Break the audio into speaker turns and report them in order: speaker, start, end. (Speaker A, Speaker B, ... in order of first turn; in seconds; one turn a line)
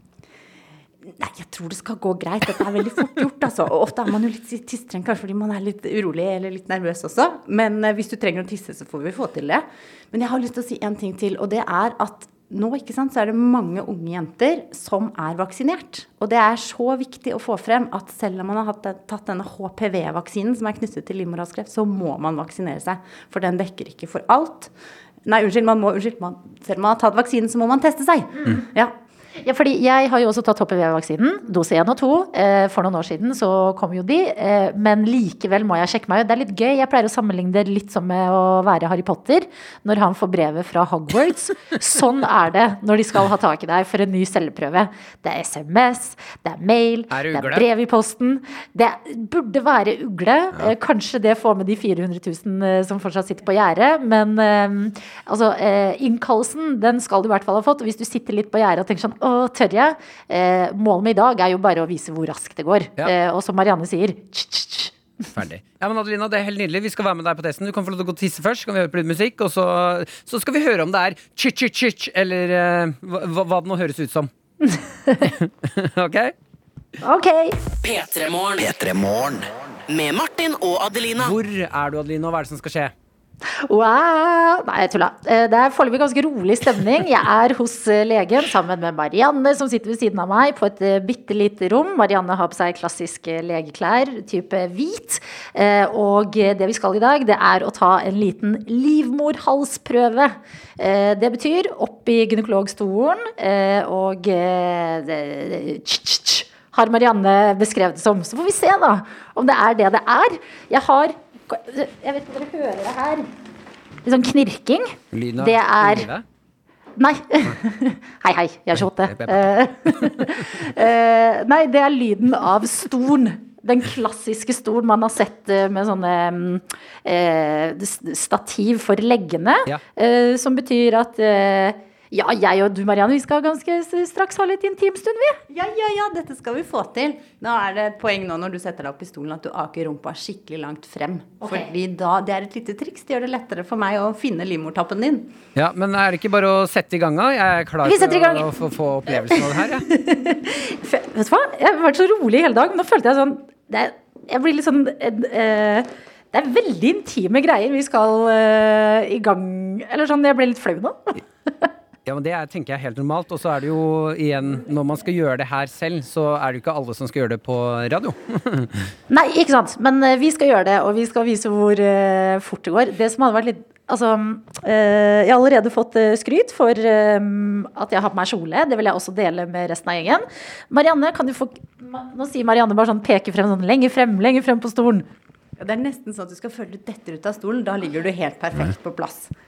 Speaker A: 1.1-24.7
Speaker A: 25.2-28.9
Speaker B: 29.4-64.9
Speaker C: 47.1-47.7
Speaker C: 65.3-74.3
Speaker B: 74.7-75.3
Speaker C: 75.2-76.3
Speaker B: 77.0-77.6
Speaker D: 77.8-81.4
Speaker C: 81.2-82.9
Speaker B: 83.7-113.2
Speaker B: 114.0-116.1
Speaker C: 115.1-116.3
Speaker B: 117.0-135.4
Speaker C: 118.8-120.6
Speaker A: 135.5-145.3
Speaker B: 141.4-141.7
Speaker C: 145.6-149.9
Speaker B: 147.8-148.5
Speaker B: 149.1-161.7
Speaker C: 162.1-168.9
Speaker B: 169.1-185.1
Speaker A: 185.6-189.3